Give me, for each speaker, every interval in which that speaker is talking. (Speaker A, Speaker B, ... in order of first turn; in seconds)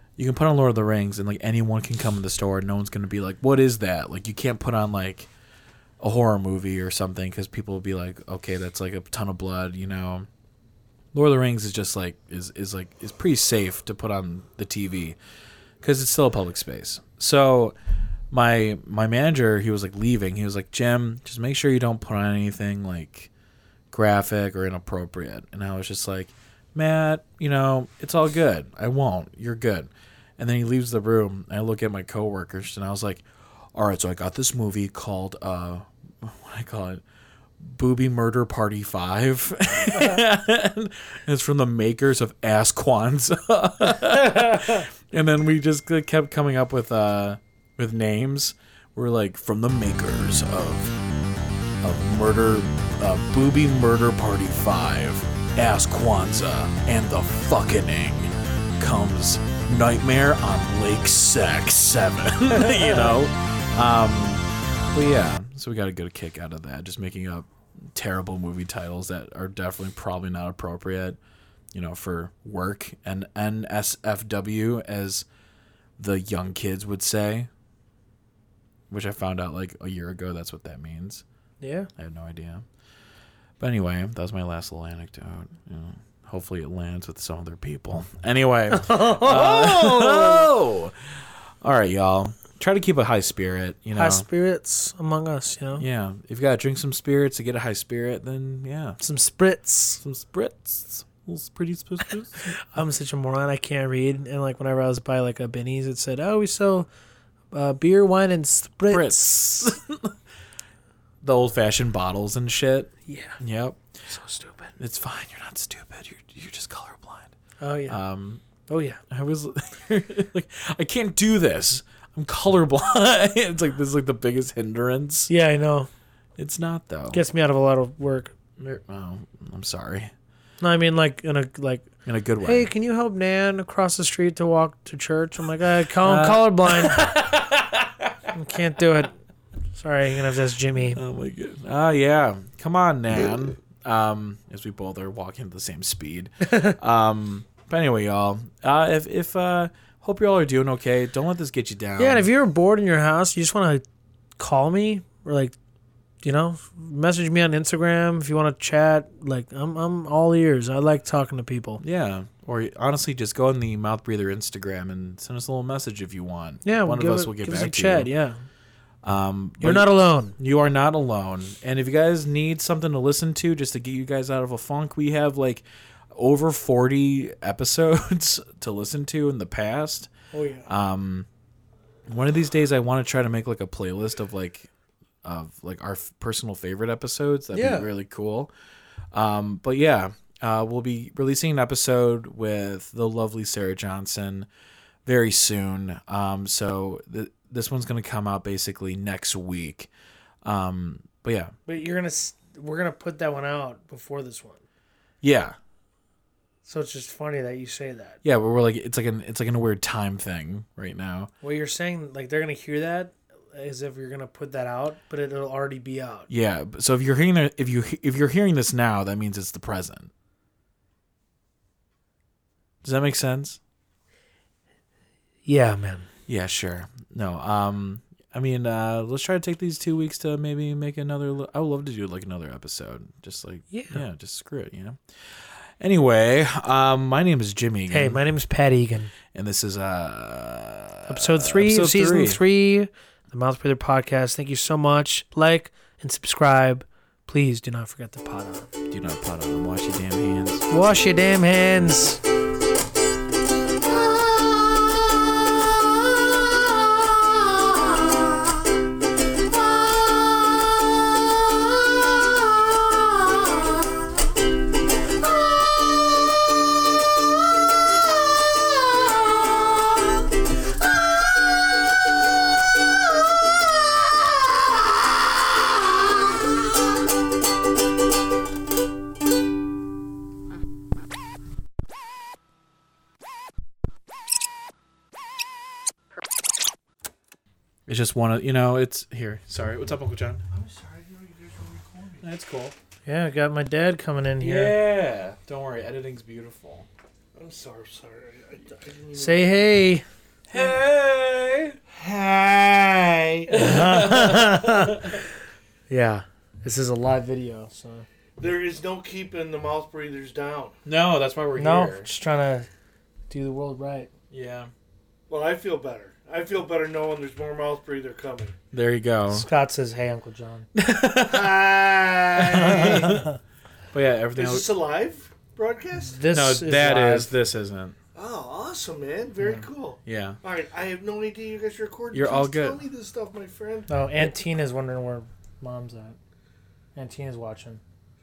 Speaker A: 0.2-5.3, 6.0-10.3, 11.1-15.2, 15.8-17.8, 18.3-23.3, 23.9-37.0, 37.6-51.0, 51.8-71.2, 71.7-75.2, 76.0-77.5, 78.9-81.2, 82.0-82.7, 83.6-94.2, 95.8-99.0, 100.0-102.6, 108.9-110.1, 111.2-113.8, 114.8-117.3, 117.9-118.4, 119.1-125.3, 126.4-127.2, 128.6-130.1, 132.1-132.7, 136.0-138.1, 140.9-152.2, 161.8-168.1, 169.0-180.1, 180.7-181.3, 182.1-184.7, 185.2-188.5, 189.1-194.5, 195.0-199.9, 200.4-201.5, 205.2-205.6, 208.2-211.3, 216.3-220.1, 222.8-223.6, 226.3-238.2, 239.3-242.4, 248.9-250.7, 287.9-290.4, 292.2-292.7, 294.4-296.9, 300.5-301.8, 303.5-305.2, 310.8-312.1, 314.3-314.7, 318.7-319.5, 320.7-321.7, 322.3-323.3, 323.9-324.7, 326.3-327.9, 330.1-330.4, 332.1-332.8
Speaker B: 44.3-44.8, 81.6-81.9, 88.7-90.5, 93.9-95.8, 99.0-100.0, 102.4-106.9, 107.5-109.7, 113.1-113.4, 114.1-114.7, 117.6-118.0, 118.7-119.0, 125.3-125.9, 127.1-128.3, 130.6-131.9, 132.4-137.2, 138.3-139.1, 139.7-141.0, 146.5-146.8, 152.0-153.8, 154.4-155.5, 156.2-161.8, 166.6-168.4, 169.6-170.3, 180.3-180.7, 187.5-187.9, 201.7-204.6, 206.7-208.2, 211.4-216.3, 225.4-226.1, 233.7-234.0, 237.9-239.1, 241.1-248.7, 250.7-252.2, 293.0-294.8, 299.1-300.0, 303.5-305.2, 305.9-308.1, 311.6-312.7, 313.3-314.1, 319.3-320.7, 322.6-323.3, 326.0-327.3, 333.9-336.2, 336.9-337.8
Speaker C: 290.5-292.2, 297.3-299.6, 301.9-303.5, 308.4-310.8, 315.3-318.6, 321.3-323.2, 324.3-326.2, 328.1-333.9